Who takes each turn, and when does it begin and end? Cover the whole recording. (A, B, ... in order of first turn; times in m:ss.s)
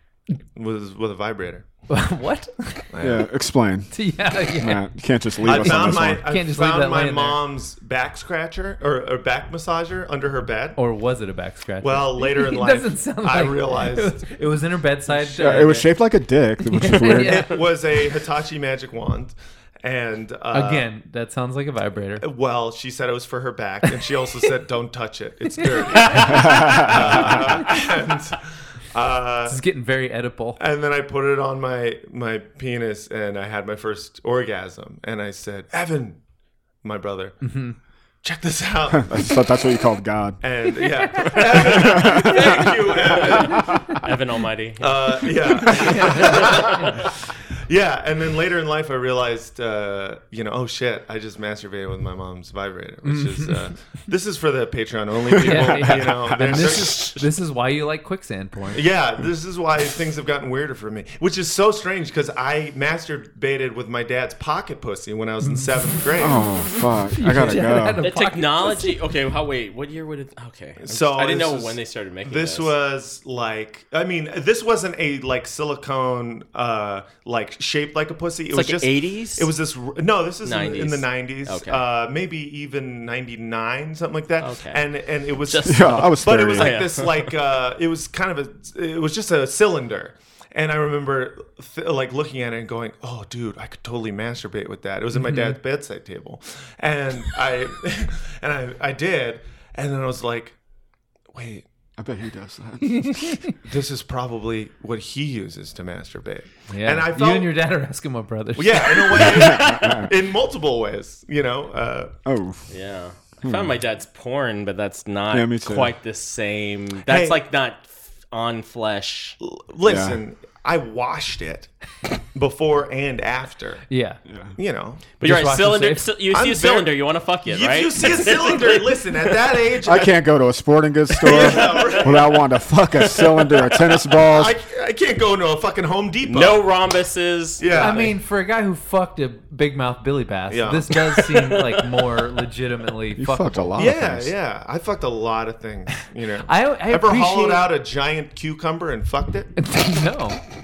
0:00.5-0:01.7 A
0:01.9-0:02.9 B
0:02.9-0:03.3 A
0:03.0-0:06.2 C
0:03.9-0:07.4 B
0:05.4-0:10.8 A
0:10.8-0:17.8 B
0:11.8-0:14.3 A
0:15.2-0:17.5 C
0:17.2-0:20.9 A
0:20.5-0:22.2 B
0:22.2-0:29.6 A
0:25.7-0:27.5 B
0:29.5-0:30.6 B
0:30.6-0:36.2 A
0:36.8-0:37.4 A
0:37.4-0:37.8 B
0:38.2-0:39.2 A
0:38.9-0:40.4 C
0:40.4-0:43.6 A
0:41.2-0:41.9 B
0:41.7-0:42.4 C
0:43.5-0:43.8 B
0:43.9-0:46.7 D
0:44.8-0:57.2 A
0:45.7-0:47.1 B
0:53.0-0:53.8 B
0:55.4-0:58.8 B
0:58.7-1:06.4 A
1:05.4-1:05.8 B
1:06.2-1:08.0 C
1:07.0-1:09.0 B
1:08.0-1:12.7 D
1:10.8-1:40.6 A
1:18.5-1:19.5 D
1:20.4-1:21.8 D
1:24.4-1:27.2 D
1:25.6-1:26.8 C
1:35.1-1:35.6 B
1:41.3-1:41.7 A
1:42.0-1:43.2 C
1:43.2-1:47.6 A
1:46.7-1:49.7 B
1:48.6-1:52.1 A
1:49.2-1:50.0 D
1:49.3-1:50.1 C
1:52.2-1:52.7 C
1:52.7-1:59.4 D
1:53.4-1:53.8 C
1:55.3-1:55.9 C
1:57.0-1:57.4 A
1:59.4-2:01.7 A
1:59.8-2:00.2 C
2:02.3-2:03.8 A
2:03.9-2:04.2 B
2:04.3-2:04.6 C
2:04.5-2:05.0 A
2:05.2-2:09.3 D
2:05.2-2:06.1 B
2:06.2-2:10.2 A
2:09.8-2:14.6 C
2:11.1-2:12.4 A
2:13.2-2:16.7 A
2:16.2-2:18.1 D
2:17.6-2:18.2 A
2:17.7-2:23.9 B
2:20.5-2:21.5 A
2:23.2-2:24.4 C
2:23.7-2:29.5 A
2:26.0-2:27.8 B
2:29.6-2:30.4 B